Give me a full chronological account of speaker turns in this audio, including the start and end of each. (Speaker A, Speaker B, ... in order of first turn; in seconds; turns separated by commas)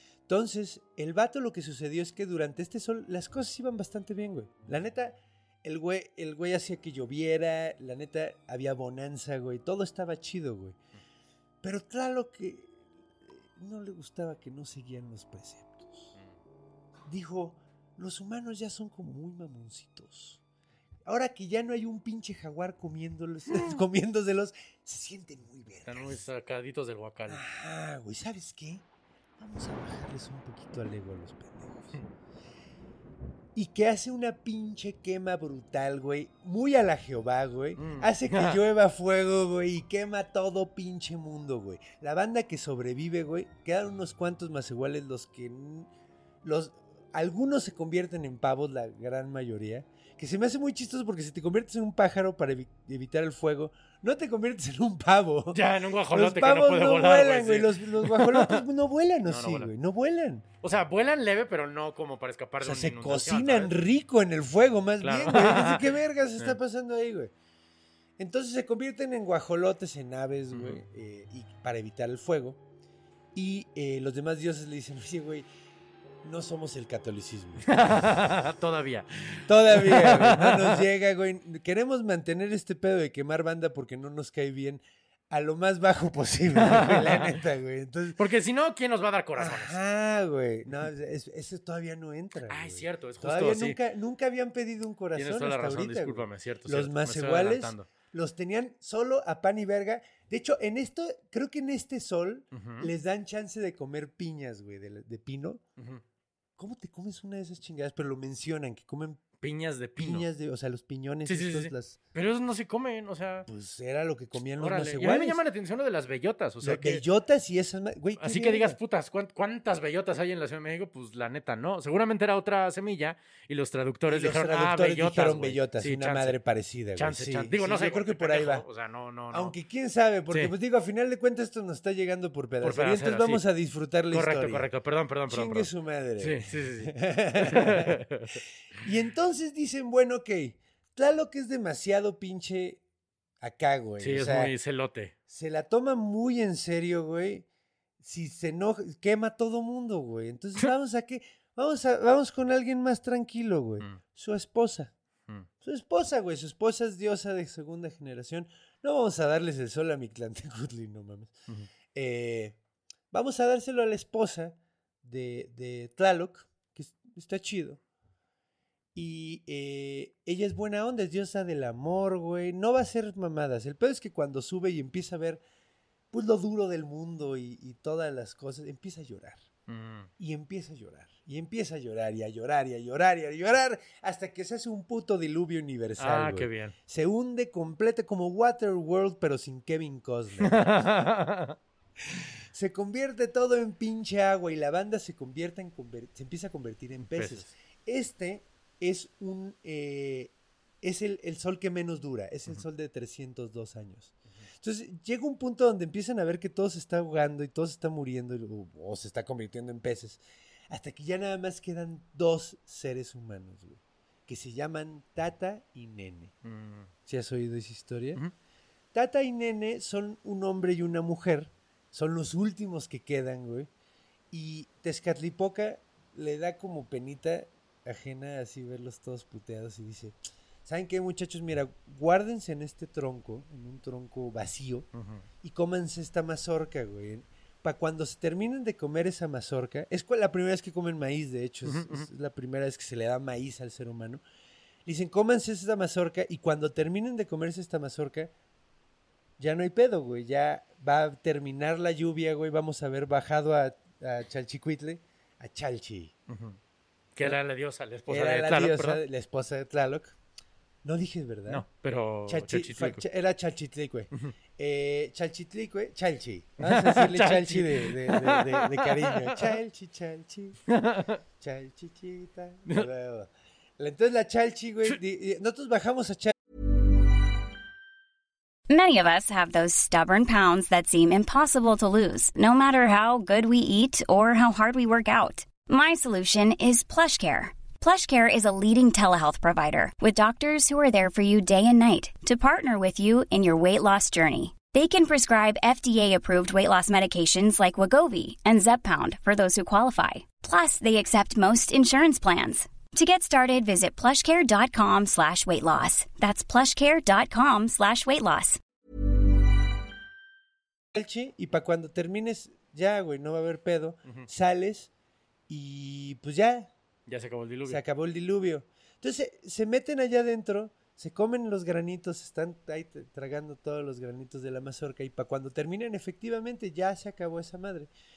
Speaker A: 0.3-10.8, Speaker A: 11.6-16.1, Speaker A: 17.0-20.4, Speaker A: 21.0-26.2, Speaker B: 25.9-27.4, Speaker A: 27.3-28.8, Speaker A: 29.4-32.0, Speaker A: 33.5-45.9, Speaker B: 37.8-38.6, Speaker A: 46.4-60.5, Speaker B: 55.5-58.6, Speaker B: 59.2-59.7, Speaker B: 60.6-63.8, Speaker A: 62.6-67.3, Speaker B: 65.0-66.6, Speaker A: 68.2-72.6, Speaker B: 70.5-70.8, Speaker A: 73.3-75.5, Speaker A: 76.2-77.7, Speaker B: 77.7-80.8, Speaker A: 79.5-88.2, Speaker B: 86.5-87.3, Speaker B: 88.2-89.8, Speaker A: 89.3-105.6, Speaker B: 92.5-93.8, Speaker B: 95.1-97.9, Speaker B: 102.5-102.9, Speaker B: 105.8-106.0, Speaker A: 106.6-109.3, Speaker B: 109.4-110.3, Speaker A: 110.0-112.0, Speaker B: 111.2-113.5, Speaker A: 113.5-115.4, Speaker B: 114.6-117.0, Speaker A: 116.6-118.8, Speaker B: 118.2-126.4, Speaker A: 124.1-128.7, Speaker B: 127.0-129.6, Speaker A: 129.3-134.7, Speaker B: 132.6-133.4, Speaker B: 134.1-138.4, Speaker A: 135.3-138.0, Speaker A: 138.8-142.8, Speaker A: 143.4-144.5, Speaker B: 144.0-145.1, Speaker A: 145.3-147.4, Speaker A: 148.0-154.9, Speaker A: 155.6-161.4, Speaker A: 161.9-162.6, Speaker A: 163.1-167.8, Speaker A: 168.9-175.4, Speaker A: 176.1-179.4, Speaker B: 179.7-180.1, Speaker A: 180.2-190.8, Speaker B: 186.0-186.7, Speaker B: 190.4-191.6, Speaker A: 192.1-216.3, Speaker B: 197.1-197.5, Speaker B: 216.4-216.9, Speaker A: 217.1-218.2, Speaker A: 218.9-223.7, Speaker A: 224.3-234.9, Speaker B: 234.9-235.2, Speaker A: 235.4-244.2, Speaker B: 241.6-242.1, Speaker A: 244.8-248.3, Speaker A: 249.4-256.1, Speaker B: 256.3-256.6, Speaker B: 257.1-259.0, Speaker A: 258.1-260.2, Speaker A: 260.8-261.6, Speaker B: 261.5-263.0, Speaker A: 262.3-270.6, Speaker B: 266.6-269.5, Speaker B: 270.7-271.2, Speaker A: 271.4-276.3, Speaker C: 278.7-308.6, Speaker A: 310.9-314.9, Speaker A: 315.5-316.7, Speaker B: 317.1-317.8, Speaker A: 317.6-327.9